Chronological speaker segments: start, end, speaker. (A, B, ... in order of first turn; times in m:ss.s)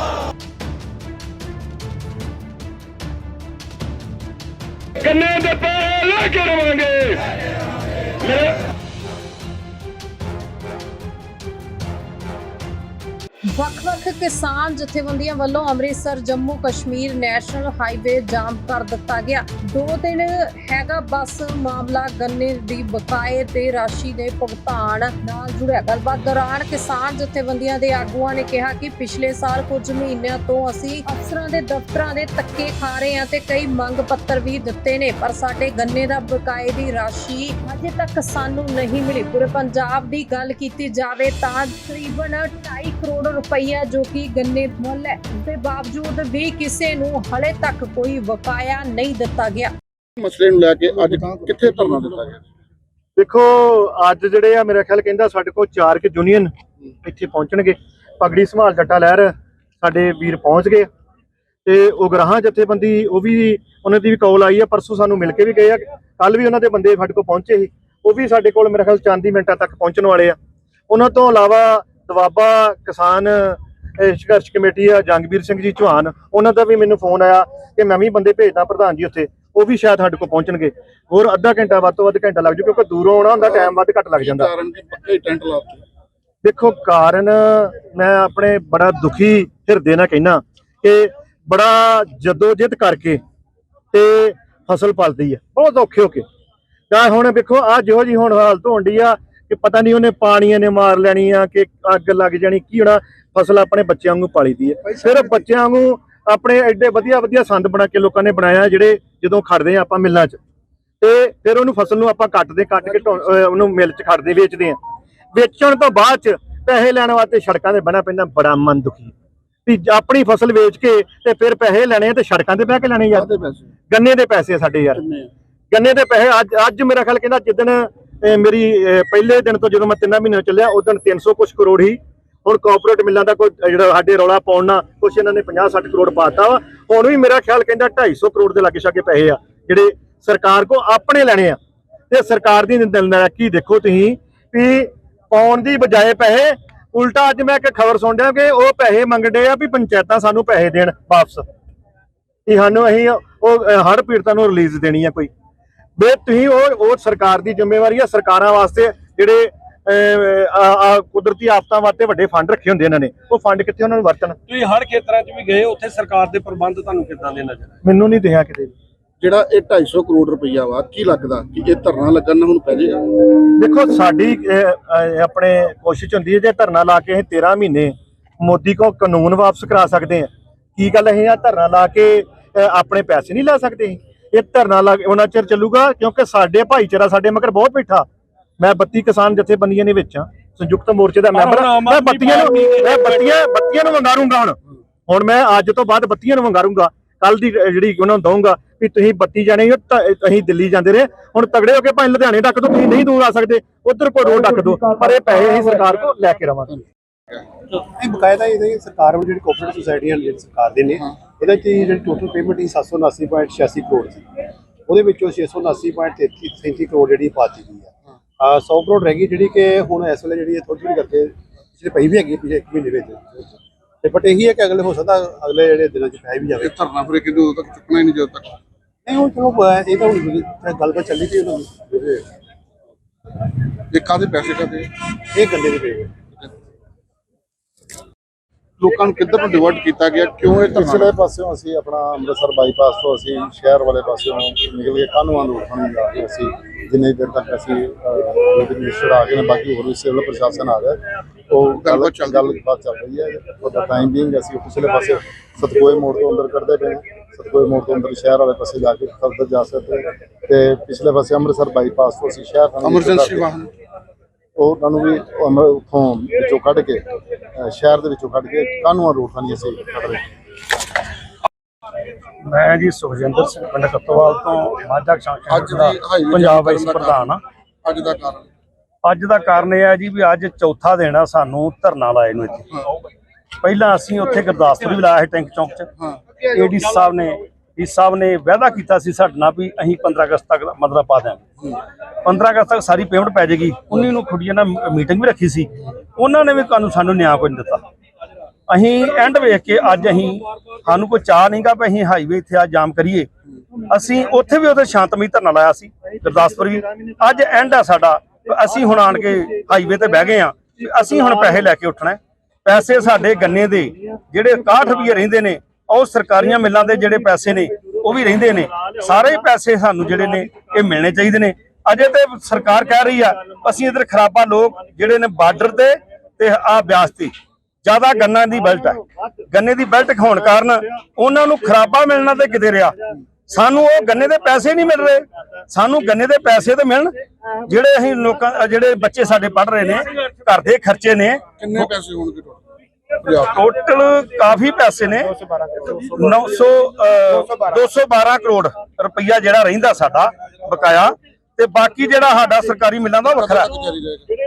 0:05.0-0:07.2 A
0:13.5-0:49.7 B
0:50.2-0:52.4 C
0:53.2-0:56.5 D
0:57.0-1:00.9 D
1:01.6-1:10.4 D
1:10.9-1:24.5 D
1:24.2-1:25.8 C
1:26.4-1:33.2 D
1:33.9-1:36.2 D
1:36.9-1:50.4 D
1:51.0-1:54.8 D
1:55.3-1:59.1 D
1:59.7-2:03.3 D
2:03.2-2:03.7 C
2:03.9-2:05.0 D
2:05.0-2:05.3 C
2:05.7-2:21.6 D
2:22.1-2:31.5 D
2:32.5-2:35.3 D
2:36.0-2:44.4 D
2:44.5-2:47.7 E
2:44.5-2:47.6 A
2:47.8-2:48.7 D
2:49.2-2:53.3 C
2:53.6-3:08.1 D
3:08.6-3:26.8 D
3:11.4-3:13.0 E
3:11.6-3:12.6 A
3:27.8-3:34.2 F
3:34.9-3:46.7 F
3:46.6-3:48.6 C
3:49.0-3:52.2 F
3:53.9-3:54.9 C
3:55.3-3:56.1 F
3:58.8-4:01.1 C
4:00.6-4:23.6 G
4:11.8-4:12.5 C
4:22.8-4:23.7 C
4:24.6-4:30.3 G
4:32.4-4:37.4 A
4:35.5-4:37.2 C
4:37.8-4:38.5 C
4:39.0-4:42.8 A
4:43.6-4:45.9 A
4:46.4-4:57.8 A
4:58.7-5:03.3 A
5:03.9-5:27.3 A
5:27.8-5:37.1 A
5:37.6-5:41.9 A
5:41.6-5:42.6 C
5:43.2-5:43.5 C
5:43.4-5:53.8 A
5:53.8-5:54.2 C